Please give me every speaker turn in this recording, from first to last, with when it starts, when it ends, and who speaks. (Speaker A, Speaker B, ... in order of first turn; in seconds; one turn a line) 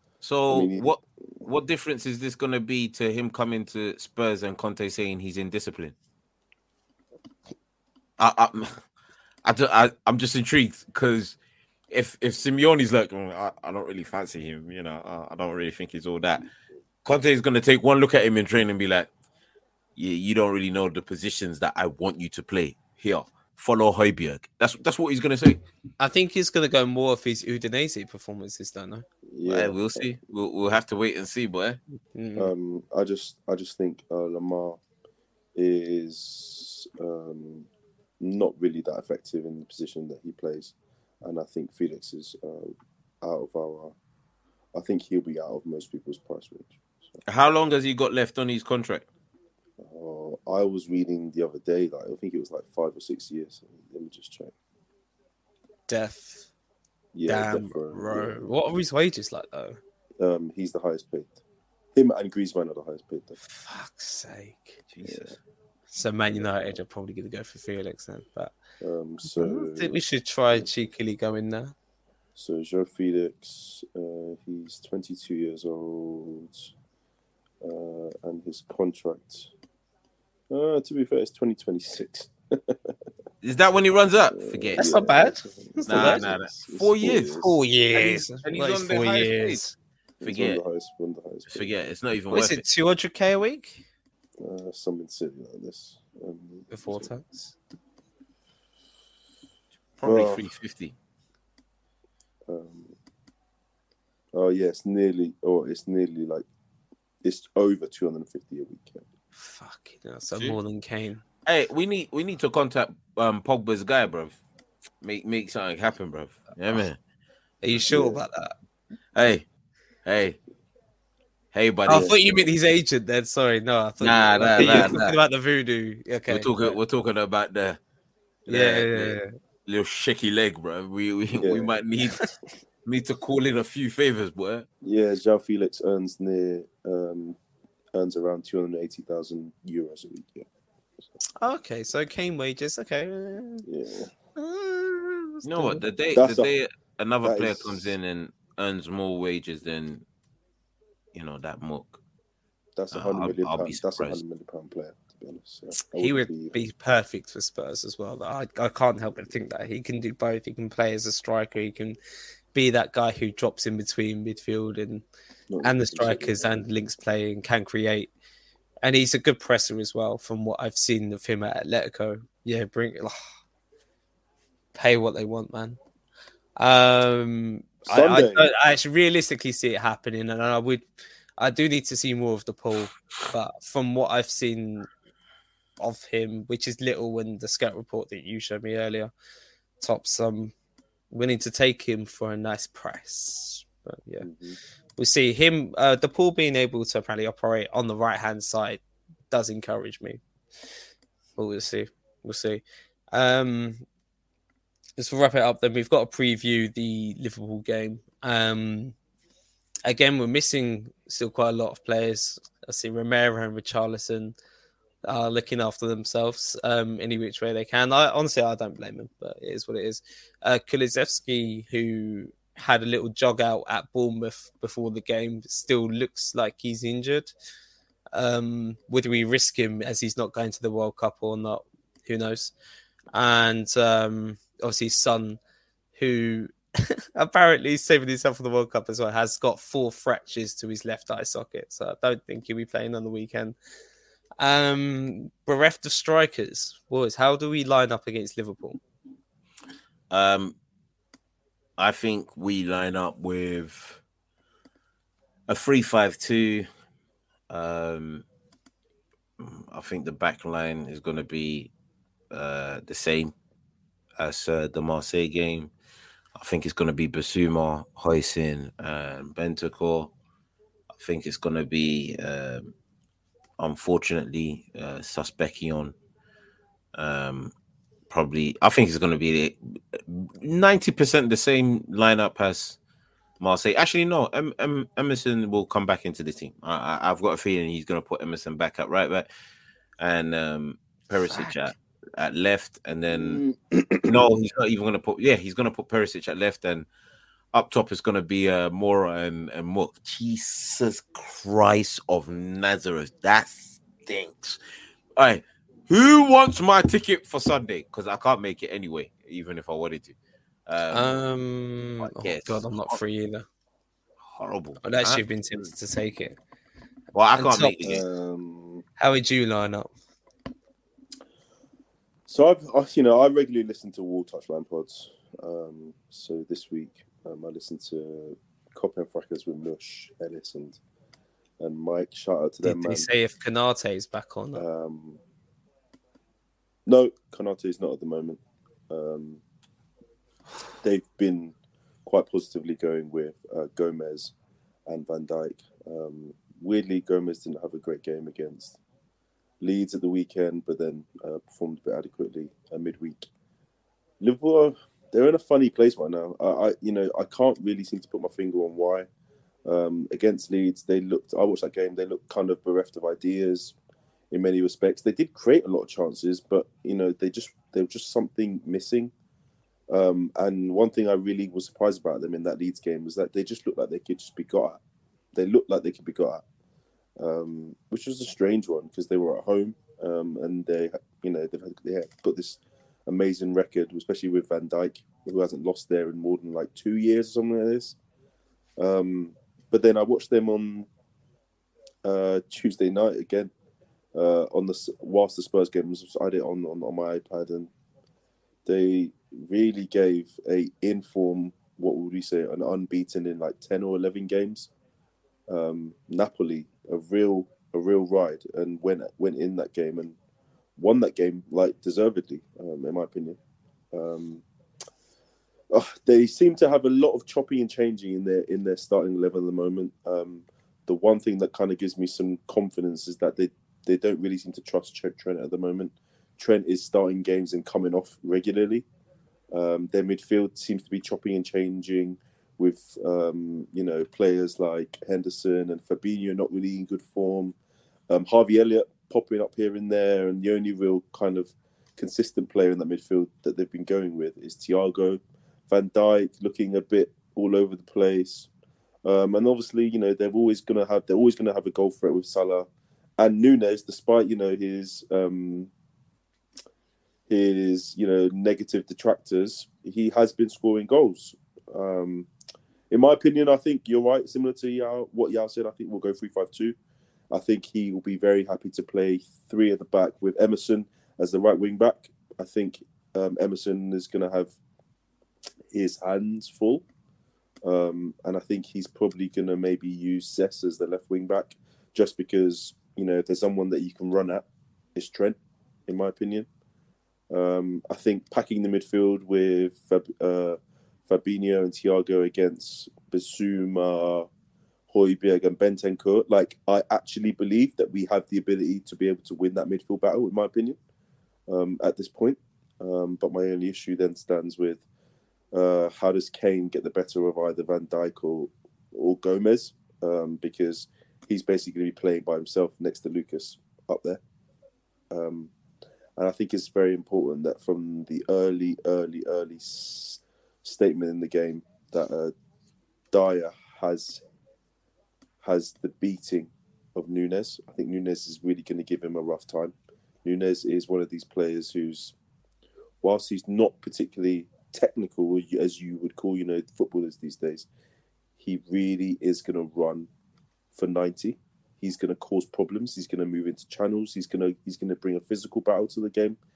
Speaker A: 0.2-5.9
Speaker B: 0.5-0.9
Speaker A: 8.2-8.7
Speaker A: 9.4-11.4
Speaker A: 11.9-16.5
Speaker A: 17.1-19.1
Speaker A: 19.9-25.6
Speaker C: 26.0-29.1
Speaker B: 29.3-30.1
Speaker A: 29.4-31.8
Speaker C: 32.1-32.5
Speaker B: 32.4-34.8
Speaker B: 35.5-37.7
Speaker B: 38.2-44.0
Speaker B: 44.7-47.2
Speaker A: 47.3-49.1
Speaker B: 49.8-54.5
Speaker C: 55.9-56.5
Speaker B: 57.1-58.5
Speaker C: 57.3-59.8
Speaker B: 60.2-61.4
Speaker B: 61.9-63.4
Speaker C: 63.5-64.9
Speaker A: 65.0-65.3
Speaker B: 65.0-65.4
Speaker C: 65.9-68.5
Speaker B: 68.8-70.0
Speaker C: 69.3-71.7
Speaker B: 72.4-76.7
Speaker B: 77.6-79.5
Speaker B: 80.5-82.9
Speaker A: 83.4-85.0
Speaker B: 84.3-87.6
Speaker C: 84.8-86.3
Speaker A: 85.9-87.4
Speaker C: 87.3-89.7
Speaker A: 87.9-89.6
Speaker B: 90.2-91.7
Speaker A: 90.2-90.6
Speaker A: 91.5-92.6
Speaker C: 92.3-93.8
Speaker B: 94.4-97.1
Speaker C: 96.7-97.5
Speaker A: 100.0-101.0
Speaker B: 100.0-100.5
Speaker B: 102.5-102.9
Speaker B: 104.3-106.5
Speaker B: 107.2-109.0
Speaker C: 109.4-111.2
Speaker A: 111.5-114.4
Speaker A: 115.0-117.0
Speaker C: 117.6-118.6
Speaker B: 117.9-118.2
Speaker A: 119.2-119.5
Speaker A: 120.1-120.4
Speaker A: 121.5-122.3
Speaker C: 121.9-126.8
Speaker B: 121.9-122.2
Speaker A: 124.0-125.2
Speaker B: 124.6-125.0
Speaker A: 126.3-127.8
Speaker A: 128.4-132.3
Speaker C: 128.5-129.3
Speaker B: 131.4-131.7
Speaker A: 132.8-134.7
Speaker B: 134.8-137.4
Speaker B: 137.9-140.5
Speaker C: 141.4-143.7
Speaker B: 143.7-144.1
Speaker C: 144.4-145.8
Speaker A: 145.4-150.1
Speaker B: 146.2-146.5
Speaker B: 147.2-147.9
Speaker A: 151.1-152.0
Speaker B: 152.7-156.6
Speaker A: 152.9-154.2
Speaker C: 155.9-162.0
Speaker C: 162.5-165.1
Speaker B: 165.5-166.6
Speaker C: 165.6-168.1
Speaker C: 168.8-173.2
Speaker C: 174.7-175.8
Speaker C: 176.6-180.9
Speaker B: 177.9-178.5
Speaker C: 181.4-184.9
Speaker C: 185.8-189.1
Speaker C: 189.8-190.5
Speaker C: 191.1-194.3
Speaker B: 194.2-194.6
Speaker C: 195.0-200.2
Speaker C: 201.4-203.8
Speaker C: 205.0-208.9
Speaker C: 209.8-214.3
Speaker C: 215.0-227.3
Speaker C: 228.1-232.5
Speaker C: 233.1-235.4
Speaker C: 235.9-243.6
Speaker C: 244.4-248.8
Speaker A: 250.1-250.6
Speaker A: 251.8-254.0
Speaker A: 255.5-256.7
Speaker A: 257.5-258.2
Speaker A: 259.4-261.7
Speaker A: 262.3-263.3
Speaker A: 264.2-265.7
Speaker A: 266.4-270.1
Speaker A: 271.0-272.7
Speaker A: 273.6-275.9
Speaker A: 276.9-277.5
Speaker A: 278.1-282.8
Speaker A: 283.4-289.3
Speaker A: 290.0-293.4
Speaker B: 293.1-294.3
Speaker A: 294.1-296.9
Speaker A: 297.5-304.6
Speaker A: 305.1-310.1
Speaker A: 310.7-311.2
Speaker C: 310.9-313.4
Speaker A: 312.0-313.0
Speaker A: 314.3-315.7
Speaker C: 314.8-316.4
Speaker A: 317.1-318.0
Speaker C: 317.4-317.7
Speaker B: 317.8-318.8
Speaker C: 319.0-319.9
Speaker B: 322.3-330.8
Speaker B: 331.6-333.1
Speaker C: 332.6-334.6
Speaker B: 334.6-335.2
Speaker B: 336.9-339.4
Speaker B: 340.8-341.6
Speaker B: 342.1-344.3
Speaker B: 344.9-348.8
Speaker B: 349.6-353.3
Speaker B: 354.2-359.1
Speaker B: 359.6-363.7
Speaker B: 364.3-369.1
Speaker B: 369.9-374.8
Speaker B: 375.3-376.4
Speaker B: 377.2-388.0
Speaker B: 388.8-390.9
Speaker B: 392.0-393.5
Speaker B: 394.1-397.7
Speaker B: 398.6-404.7
Speaker B: 405.5-410.2
Speaker B: 410.8-413.4
Speaker B: 413.9-414.4
Speaker B: 415.7-428.9
Speaker B: 429.5-437.6
Speaker B: 438.1-448.5
Speaker B: 449.1-455.7
Speaker B: 457.3-462.3
Speaker B: 462.9-466.8
Speaker B: 467.3-474.6
Speaker B: 475.7-476.9
Speaker B: 477.6-486.5
Speaker B: 487.3-494.3
Speaker B: 494.9-500.8
Speaker B: 501.5-504.8
Speaker B: 505.5-514.2
Speaker B: 515.1-515.5
Speaker B: 516.2-522.3
Speaker B: 523.1-524.2
Speaker B: 525.4-532.1
Speaker B: 533.0-537.7
Speaker B: 538.4-540.1
Speaker B: 540.7-546.4